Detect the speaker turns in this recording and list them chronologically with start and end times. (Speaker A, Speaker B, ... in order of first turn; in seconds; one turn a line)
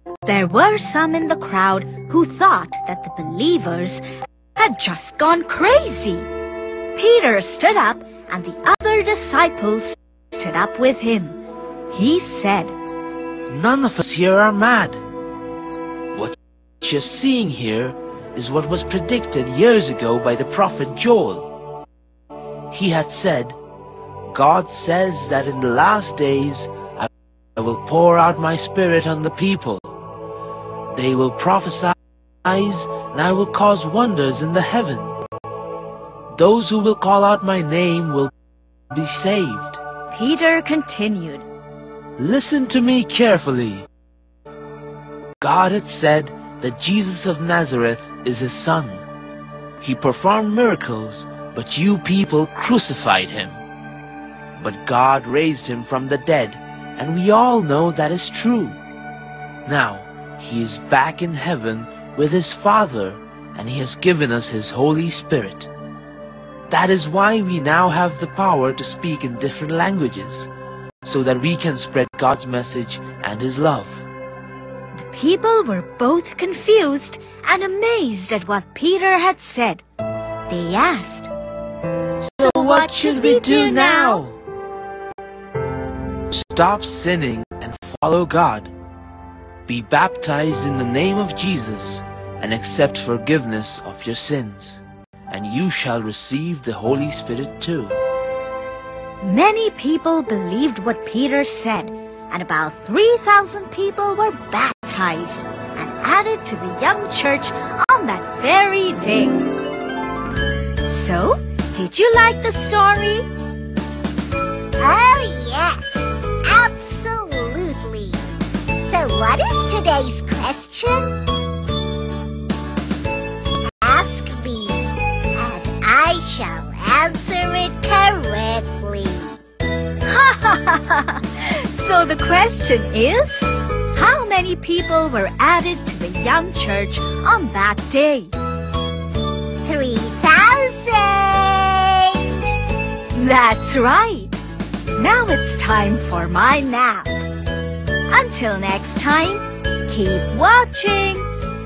Speaker A: 0.2-4.0
Speaker A: 4.5-6.3
Speaker A: 6.9-12.7
Speaker B: 13.5-15.0
Speaker B: 16.1-21.5
Speaker B: 22.7-23.6
Speaker B: 24.3-30.0
Speaker B: 30.9-35.1
Speaker B: 36.3-38.3
Speaker B: 38.9-39.8
Speaker A: 40.1-41.5
Speaker B: 42.2-43.9
Speaker B: 45.4-49.0
Speaker B: 49.8-53.6
Speaker B: 54.6-58.8
Speaker B: 59.6-65.7
Speaker B: 66.7-70.5
Speaker B: 71.0-74.0
Speaker A: 74.9-79.8
Speaker A: 80.5-81.3
Speaker B: 82.2-84.4
Speaker A: 82.4-84.2
Speaker B: 86.3-88.7
Speaker B: 89.7-98.0
Speaker A: 99.2-109.5
Speaker A: 110.8-113.3
Speaker C: 114.8-118.2
Speaker C: 118.8-121.2
Speaker C: 123.8-129.4
Speaker A: 130.0-138.3
Speaker C: 139.6-142.4
Speaker A: 143.1-144.4
Speaker A: 144.9-147.2
Speaker A: 148.1-151.3